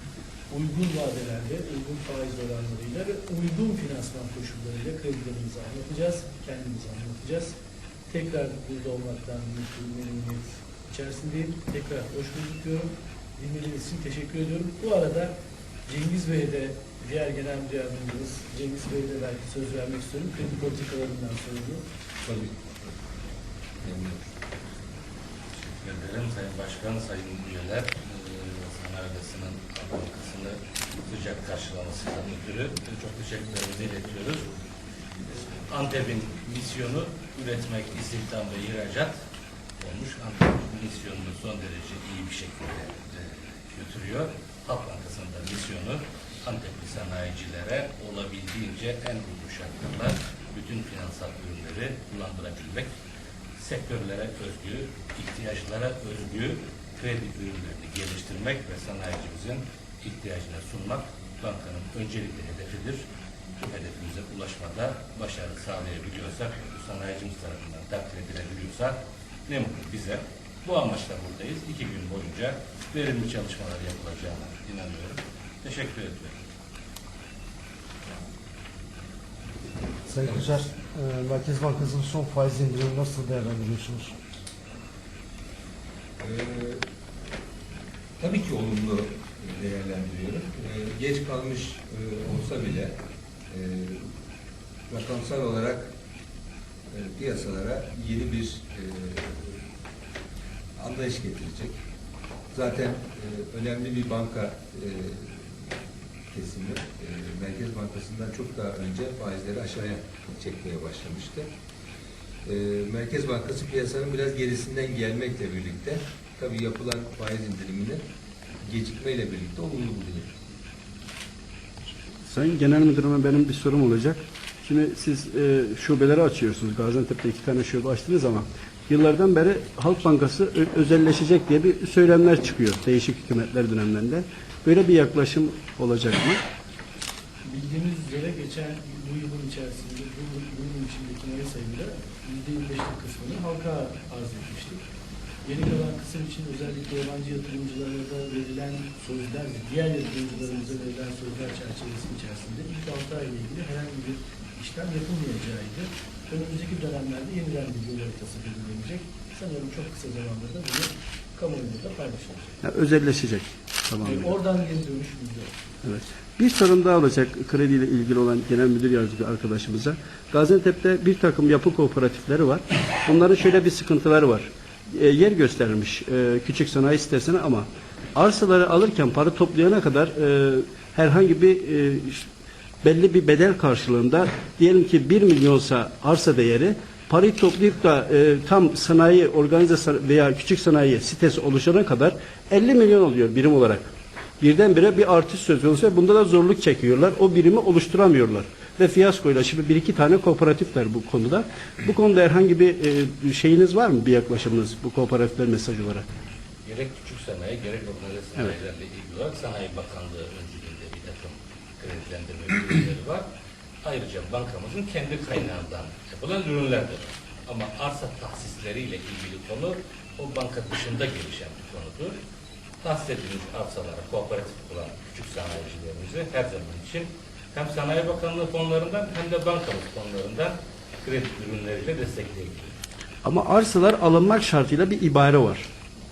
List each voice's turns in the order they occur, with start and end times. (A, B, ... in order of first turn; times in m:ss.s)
0:00.5-0:07.6 A
0:08.1-0:15.3 A
0:15.9-0:21.8 A
0:22.2-0:22.6 B
0:23.8-0:24.3 B
0:25.5-0:34.5 C
0:35.3-0:39.2 C
0:39.8-0:52.9 C
0:53.6-1:03.0 C
1:03.6-1:16.3 C
1:20.0-1:24.1 D
1:26.2-1:26.8 B
1:28.2-1:32.9 B
1:33.5-1:34.0 B
1:34.9-1:35.9 B
1:36.9-1:39.6 B
1:40.8-1:41.8 B
1:42.5-1:45.5 B
1:46.3-1:51.4 B
1:52.4-1:58.0 B
1:58.6-2:00.3 B
2:02.3-2:16.4 E
2:17.4-2:24.8 A
2:25.4-2:42.6 A
2:42.6-2:44.3 E
2:44.0-2:45.5 A
2:45.8-3:02.3 E
3:02.8-3:13.9 E
3:14.4-3:26.0 E
3:26.6-3:33.2 C
3:33.8-3:42.2 C
3:42.8-3:52.7 C
3:53.2-3:55.7 E